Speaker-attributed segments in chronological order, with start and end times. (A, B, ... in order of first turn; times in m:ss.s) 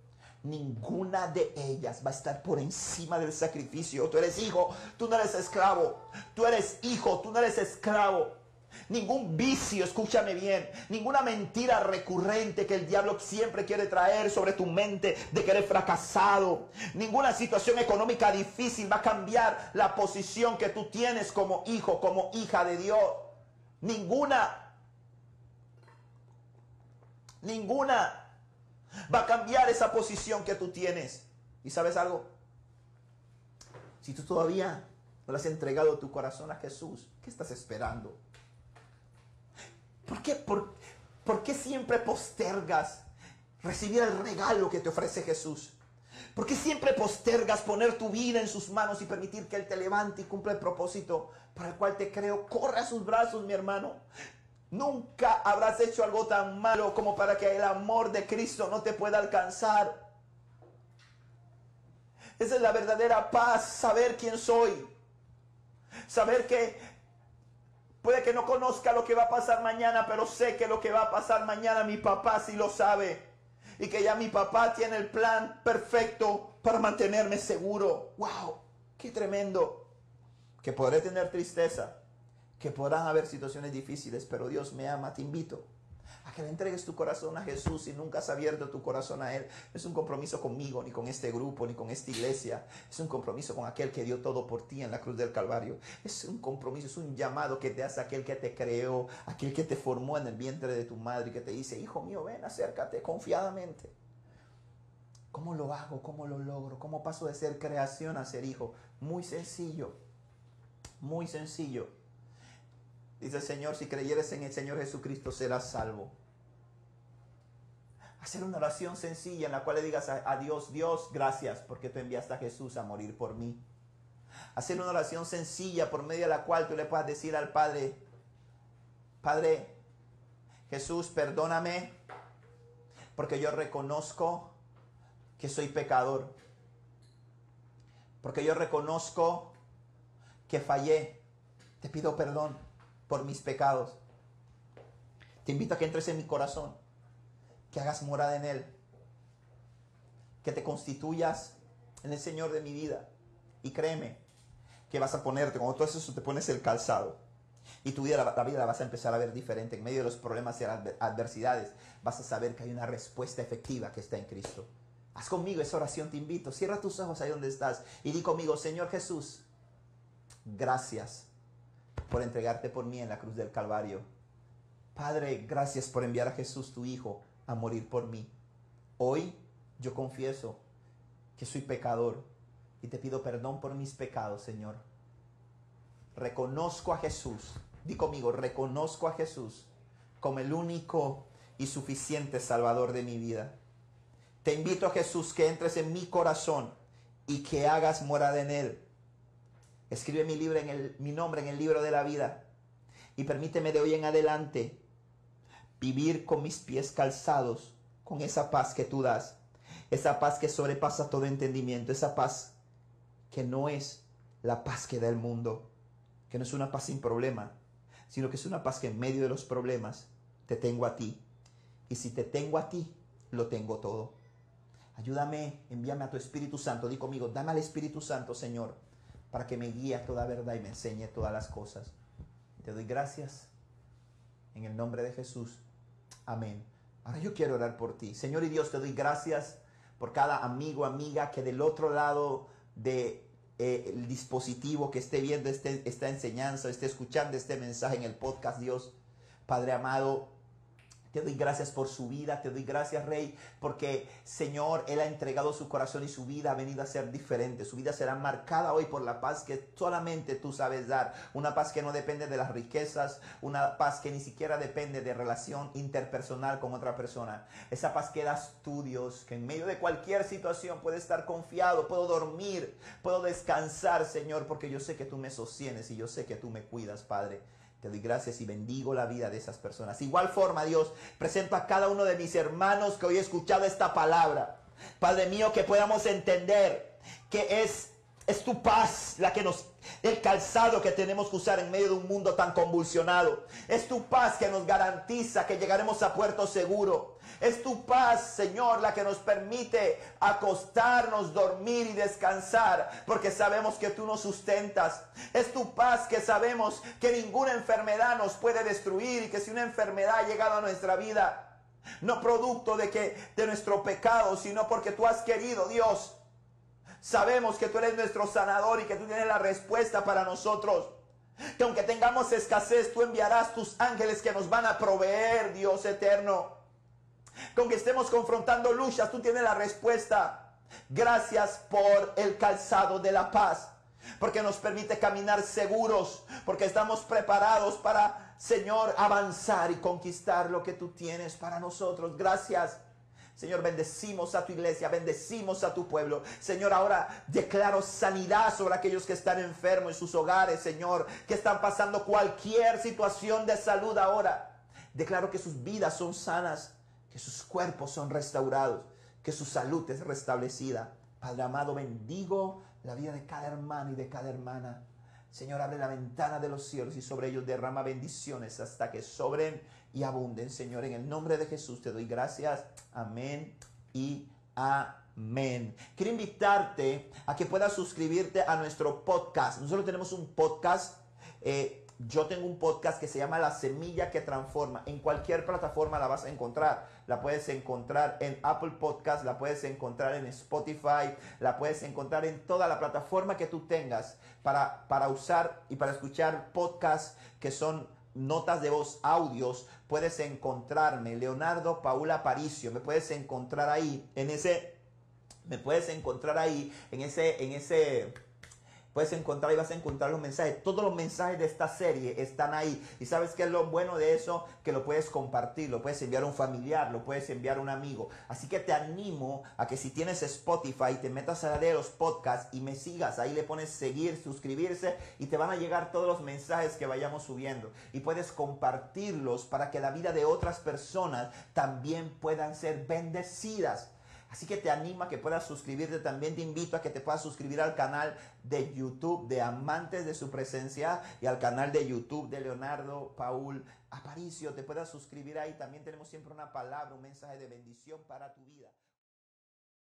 0:00.4-0:08.4 A
0:08.9-0:24.7 A
0:27.4-0:28.3 A
0:29.1-0:32.3 A
0:34.0-0:38.2 A
0:40.1-0:43.0 A
0:43.6-0:45.8 A
0:46.4-0:54.0 A
0:54.7-1:00.0 A
1:02.4-1:04.9 A
1:06.1-1:06.8 A
1:08.0-1:13.2 A
1:13.8-1:19.9 A
1:20.6-1:22.0 A
1:22.6-1:25.7 A
1:26.2-1:43.9 A
1:45.3-1:50.0 A
1:51.0-1:51.9 A
1:53.2-1:56.1 A
1:58.2-2:03.6 A
2:04.6-2:08.0 A
2:09.2-2:09.8 A
2:10.7-2:11.9 A
2:13.2-2:14.5 A
2:15.4-2:16.3 A
2:18.2-2:19.5 A
2:20.5-2:21.2 A
2:21.8-2:24.0 A
2:25.4-2:26.8 A
2:27.7-2:28.7 A
2:30.4-2:33.1 A
2:33.6-2:34.2 A
2:34.9-2:37.2 A
2:37.8-2:49.4 A
2:50.5-2:51.3 A
2:52.1-2:54.1 A
2:55.0-2:58.3 A
2:59.0-3:00.6 A
3:01.4-3:02.3 A
3:02.8-3:04.8 A
3:06.2-3:09.7 A
3:10.2-3:13.6 A
3:14.4-3:16.7 A
3:17.3-3:18.8 A
3:19.9-3:22.4 A
3:23.2-3:24.8 A
3:25.8-3:29.4 A
3:29.9-3:32.5 A
3:33.3-3:35.7 A
3:36.3-3:37.5 A
3:38.1-3:41.2 A
3:41.9-3:44.1 A
3:45.0-3:48.8 A
3:49.3-3:51.9 A
3:52.6-3:53.5 A
3:54.5-3:55.6 A
3:56.3-4:08.9 A
4:09.5-4:10.3 A
4:11.1-5:16.2 A
5:17.0-5:20.9 A
5:21.6-5:26.5 A
5:27.6-5:42.8 A
5:43.4-6:44.8 A
6:45.5-6:48.1 A
6:48.9-7:28.8 A